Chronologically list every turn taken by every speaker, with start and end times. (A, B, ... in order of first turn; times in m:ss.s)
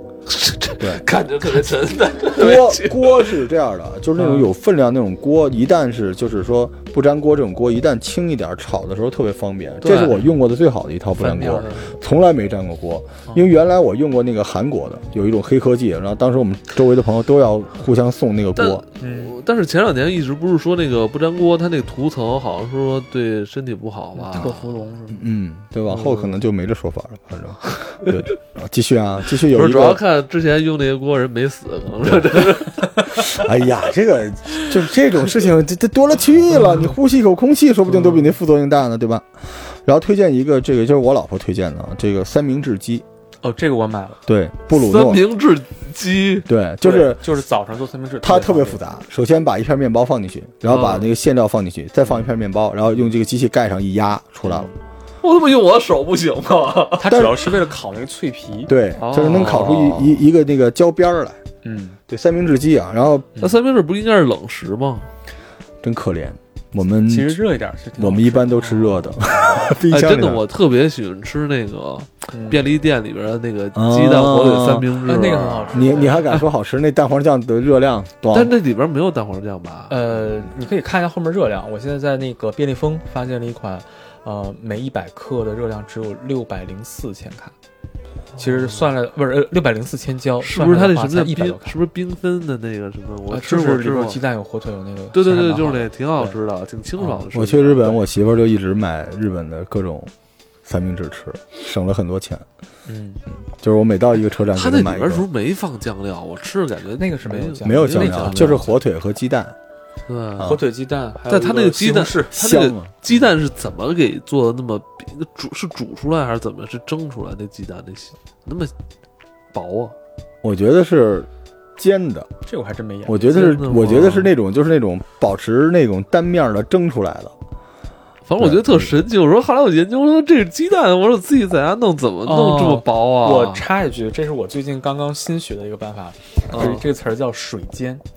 0:00.3-0:03.4 A
0:00.8-0:01.0 B
0:02.3-0:18.8 B
0:04.2-0:04.5 C
0:09.8-0:10.3 A
0:11.2-0:11.8 C
0:11.5-0:11.8 A
0:18.6-0:25.1 A
0:19.0-0:19.3 C
0:24.1-0:25.1 C
0:25.1-0:30.0 B
0:25.9-0:26.4 A
0:29.4-0:33.4 A
0:32.0-0:32.4 B
0:33.1-0:43.0 B
0:37.9-0:38.3 A
0:43.4-0:44.2 C
0:44.2-0:45.2 B
0:44.7-0:46.5 A
0:46.5-0:47.3 B
0:46.8-0:48.8 C
0:48.2-0:54.7 B
0:50.6-0:51.1 A
0:55.2-0:57.3 A
0:57.0-0:58.7 C
0:57.1-0:57.4 B
0:58.7-1:01.4 B
0:59.0-1:00.2 A
1:01.6-1:02.0 C
1:02.1-1:03.4 B
1:03.4-1:05.1 A
1:05.8-1:07.4 B
1:07.0-1:09.6 C
1:08.0-1:10.4 B
1:09.7-1:16.1 A
1:12.3-1:12.6 C
1:13.7-1:14.9 B
1:15.0-1:16.2 C
1:15.7-1:18.5 B
1:18.3-1:20.0 A
1:19.9-1:27.5 C
1:28.4-1:28.9 A
1:28.4-1:31.8 C
1:30.4-1:34.2 A
1:33.3-1:36.4 C
1:35.1-1:38.0 A
1:37.0-1:37.3 C
1:37.3-1:40.1 B
1:40.6-1:42.4 B
1:42.9-1:43.2 C
1:43.5-1:45.3 B
1:44.5-1:48.6 A
1:47.0-1:48.8 C
1:47.6-1:49.6 B
1:50.1-1:50.6 A
1:50.4-1:52.3 C
1:51.2-1:58.7 A
1:52.3-1:52.9 B
1:59.5-2:00.0 A
2:00.4-2:02.3 B
2:02.4-2:03.4 C
2:03.0-2:07.3 B
2:03.3-2:04.3 A
2:08.2-2:13.7 A
2:08.4-2:09.0 B
2:12.2-2:18.0 C
2:16.5-2:16.8 A